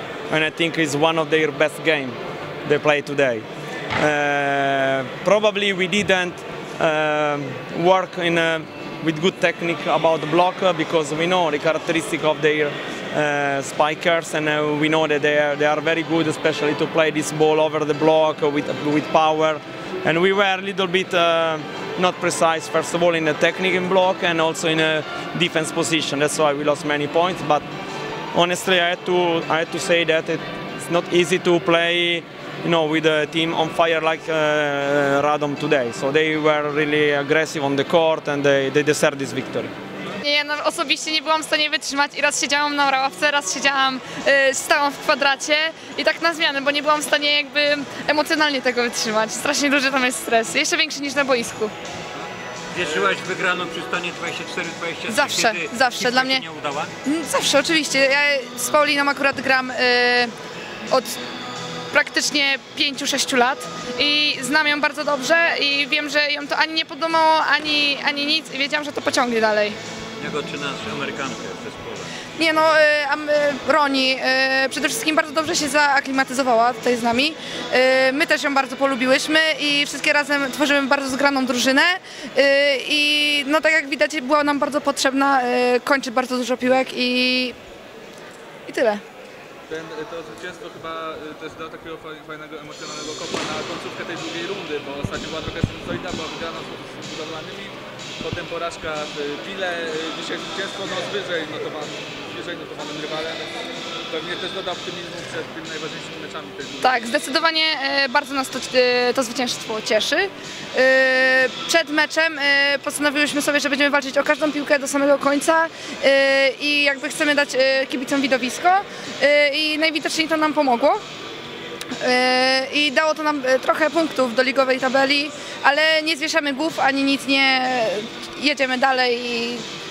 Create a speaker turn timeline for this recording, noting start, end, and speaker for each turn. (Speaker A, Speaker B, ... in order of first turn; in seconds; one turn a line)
Speaker A: 0.3-3.5
Speaker A: 4.0-27.7
Speaker A: 28.3-39.7
Speaker B: 40.2-51.7
Speaker C: 52.7-56.9
Speaker D: 52.8-53.1
Speaker B: 55.1-56.4
Speaker B: 57.0-60.3
Speaker B: 60.9-61.2
Speaker B: 61.9-69.8
Speaker C: 70.2-72.1
Speaker B: 72.4-87.6
Speaker B: 88.7-89.0
Speaker D: 89.7-103.6
Speaker D: 104.1-107.2
Speaker B: 106.8-121.0
Speaker B: 122.0-129.7